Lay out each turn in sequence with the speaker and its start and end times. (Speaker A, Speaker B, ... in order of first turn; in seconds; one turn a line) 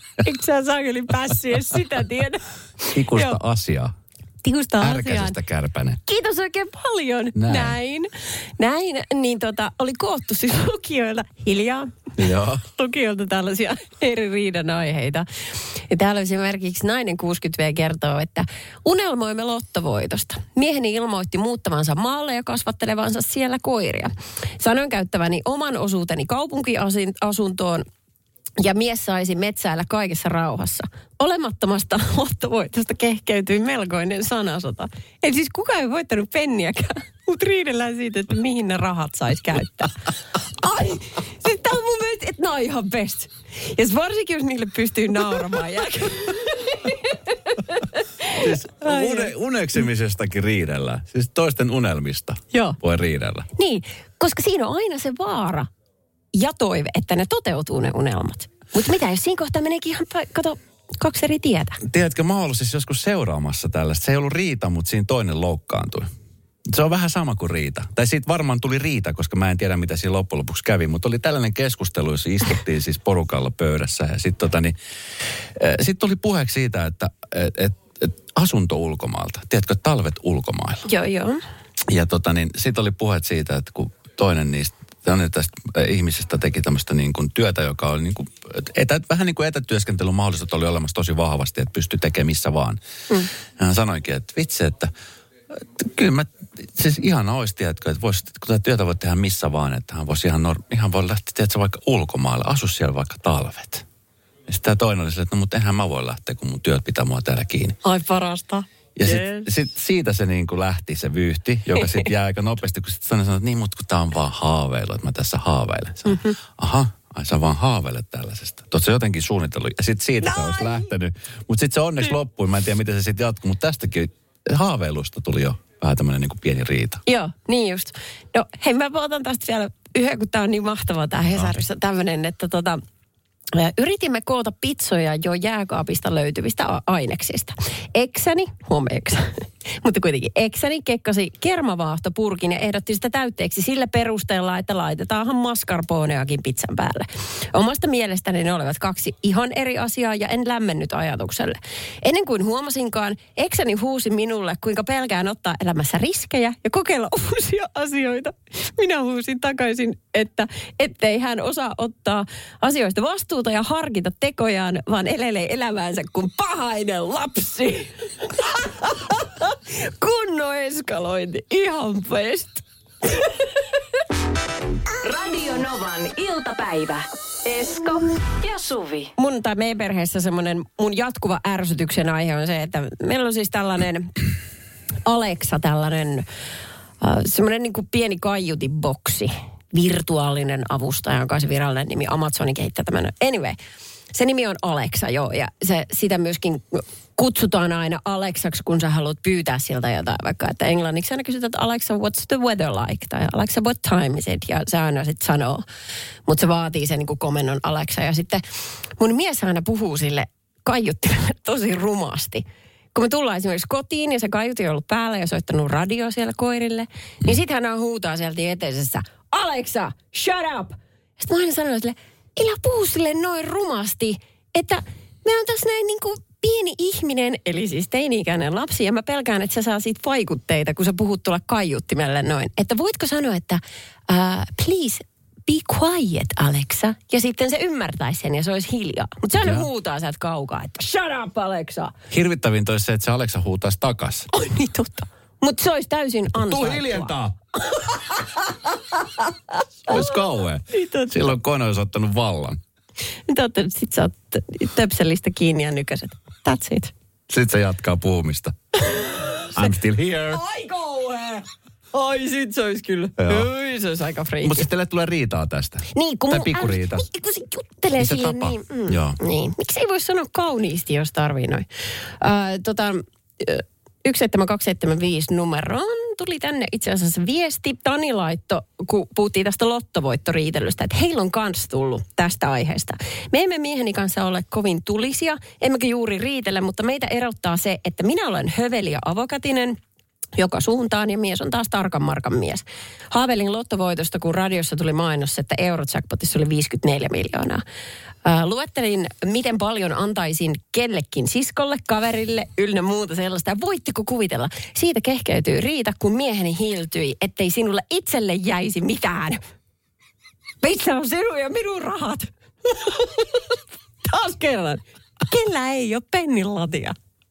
Speaker A: 0.2-3.4
Speaker B: 2.9-3.9
Speaker A: 4.4-5.4
Speaker B: 4.8-6.0
Speaker A: 6.0-27.8
Speaker B: 7.3-7.8
Speaker B: 12.2-12.6
Speaker A: 28.6-39.9
Speaker A: 40.6-49.3
Speaker B: 48.3-53.5
Speaker A: 52.5-52.8
Speaker A: 53.5-55.7
Speaker A: 56.3-61.8
Speaker B: 61.8-66.1
Speaker B: 66.7-74.7
Speaker B: 75.5-80.8
Speaker A: 80.8-81.4
Speaker B: 81.9-92.8
Speaker B: 93.6-94.9
Speaker B: 95.5-103.8
Speaker B: 104.5-107.8
Speaker A: 107.8-109.5
Speaker B: 109.0-127.0
Speaker A: 120.2-120.8
Speaker A: 127.0-132.8
Speaker A: 133.5-173.4
Speaker C: 175.0-179.1
Speaker A: 179.2-184.2
Speaker A: 185.1-186.2
Speaker A: 187.0-193.6
Speaker A: 194.1-205.6
Speaker A: 206.3-208.4
Speaker A: 209.0-241.9
Speaker B: 239.4-239.7
Speaker B: 242.1-244.3
Speaker A: 244.3-247.1
Speaker B: 246.3-247.3
Speaker A: 247.7-248.6
Speaker A: 249.9-250.2
Speaker B: 249.9-252.6
Speaker A: 250.7-251.2
Speaker A: 253.3-256.9
Speaker B: 257.3-258.5
Speaker A: 258.9-259.5
Speaker B: 259.5-260.4
Speaker A: 260.3-264.7
Speaker B: 263.2-263.5
Speaker B: 264.4-267.1
Speaker A: 265.9-271.6
Speaker B: 268.0-269.2
Speaker A: 272.2-289.8
Speaker A: 290.4-297.6
Speaker A: 298.2-309.4
Speaker A: 310.6-313.5
Speaker A: 314.0-316.9